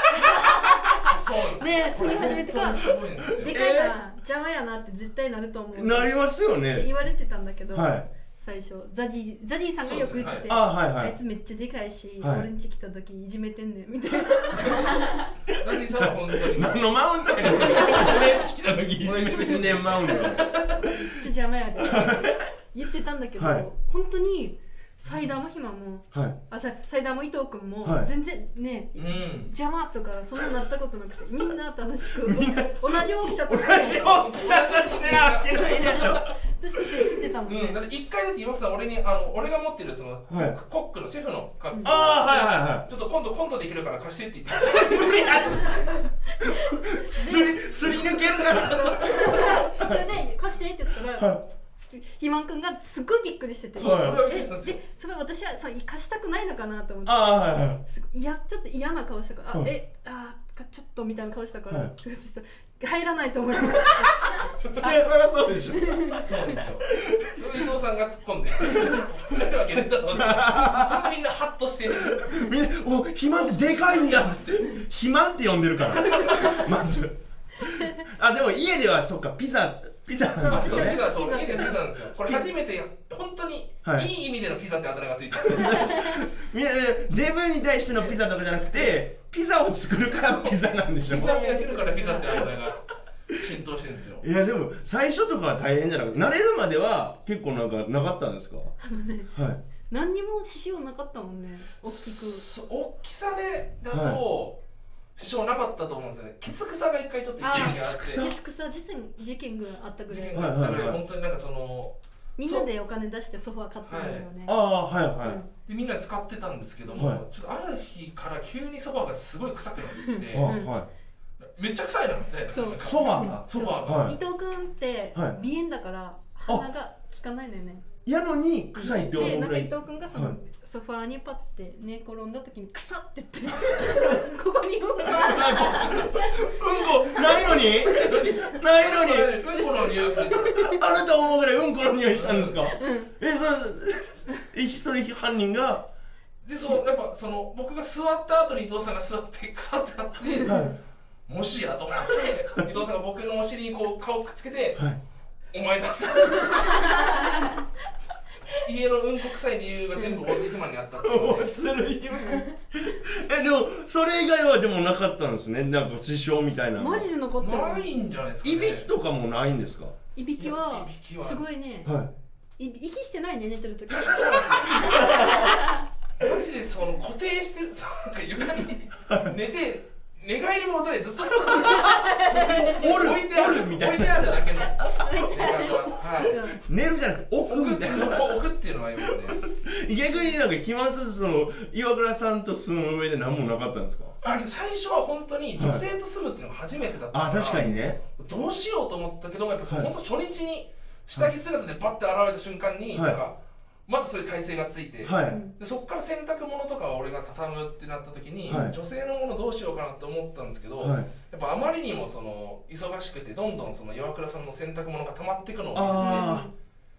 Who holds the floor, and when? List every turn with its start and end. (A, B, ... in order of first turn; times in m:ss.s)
0:00.2-0:01.1 A
0:01.1-0:03.7 B
0:01.6-0:15.2 A
0:02.0-0:04.0 C
0:05.7-0:06.9 C
0:07.7-0:08.1 C
0:09.8-0:10.6 B
0:10.5-0:11.2 C
0:12.2-0:12.5 C
0:15.6-0:18.3 B
0:15.7-0:22.4 C
0:17.7-0:18.2 A
0:19.0-0:20.7 B
0:21.2-0:37.8 A
0:23.4-0:23.7 C
0:26.1-0:26.4 C
0:27.8-0:28.1 C
0:29.0-0:29.5 B
0:32.1-0:37.2 C
0:34.2-0:36.2 B
0:37.5-0:45.8 B
0:40.3-0:40.6 C
0:41.7-0:42.5 A
0:41.8-0:42.9 C
0:44.6-0:45.8 C
0:45.2-0:45.7 A
0:46.4-0:51.3 A
0:46.5-0:50.2 C
0:47.9-0:49.4 B
0:51.0-0:51.5 C
0:51.9-1:04.2 A
0:53.8-0:54.3 C
0:53.8-0:54.8 B
0:57.0-0:57.8 C
1:03.7-1:04.2 C
1:04.7-1:06.2 C
1:05.6-1:06.6 A
1:06.2-1:06.8 B
1:06.8-1:07.7 C
1:07.4-1:12.3 B
1:10.1-1:11.1 C
1:11.9-1:21.2 C
1:13.4-1:14.6 B
1:16.2-1:16.6 B
1:16.3-1:16.5 A
1:20.4-1:21.8 A
1:20.5-1:26.1 B
1:22.2-1:22.5 C
1:23.8-1:24.1 C
1:25.4-1:31.4 C
1:28.7-1:29.0 B
1:30.1-1:32.8 B
1:31.1-1:32.5 A
1:33.4-1:34.2 B
1:34.2-1:38.7 C
1:38.8-1:39.3 A
1:39.3-1:39.6 C
1:39.9-1:42.4 A
1:41.8-1:44.6 B
1:43.9-1:44.2 C
1:45.2-1:48.3 B
1:47.4-1:50.8 A
1:47.4-1:48.4 C
1:50.1-1:52.7 B
1:50.3-1:51.0 C
1:52.4-1:54.6 A
1:53.9-1:54.3 B
1:54.4-1:55.4 C
1:55.2-1:55.5 A
1:55.7-2:00.5 B
1:56.9-1:57.2 C
2:00.0-2:00.8 A
2:00.3-2:00.9 C
2:01.6-2:04.1 B
2:02.5-2:07.9 A
2:02.8-2:04.2 C
2:05.1-2:05.4 C
2:08.0-2:10.4 C
2:08.8-2:18.5 A
2:13.7-2:14.1 C
2:15.0-2:19.6 C
2:17.9-2:20.6 B
2:20.3-2:20.8 A
2:20.4-2:25.9 C
2:22.1-2:22.6 B
2:22.7-2:23.1 A
2:26.4-2:30.6 B
2:30.3-2:30.6 A
2:30.4-2:30.8 C
2:31.3-2:34.8 B
2:35.5-2:37.1 B
2:36.9-2:37.4 A
2:38.6-2:41.6 B
2:40.0-2:40.3 A
2:41.0-2:47.1 C
2:46.8-2:47.9 A
2:47.4-2:48.9 B
2:48.4-2:50.0 C
2:50.2-2:51.9 A
2:50.4-2:51.5 B
2:51.8-2:52.1 C
2:52.6-2:55.6 A
2:54.1-2:55.2 B
2:54.9-2:55.2 C
2:56.2-3:06.4 B
2:59.1-2:59.4 C
3:01.6-3:08.5 C
3:01.6-3:02.9 A
3:05.0-3:06.6 A
3:07.4-3:09.4 B
3:09.0-3:14.2 C
3:14.2-3:23.3 B
3:15.6-3:15.9 C
3:17.1-3:18.0 C
3:19.7-3:19.9 C
3:22.9-3:23.2 C
3:23.9-3:36.3 B
3:25.0-3:25.5 C
3:25.2-3:25.5 A
3:28.4-3:28.8 C
3:30.8-3:31.1 C
3:35.7-3:36.5 C
3:35.9-3:36.5 A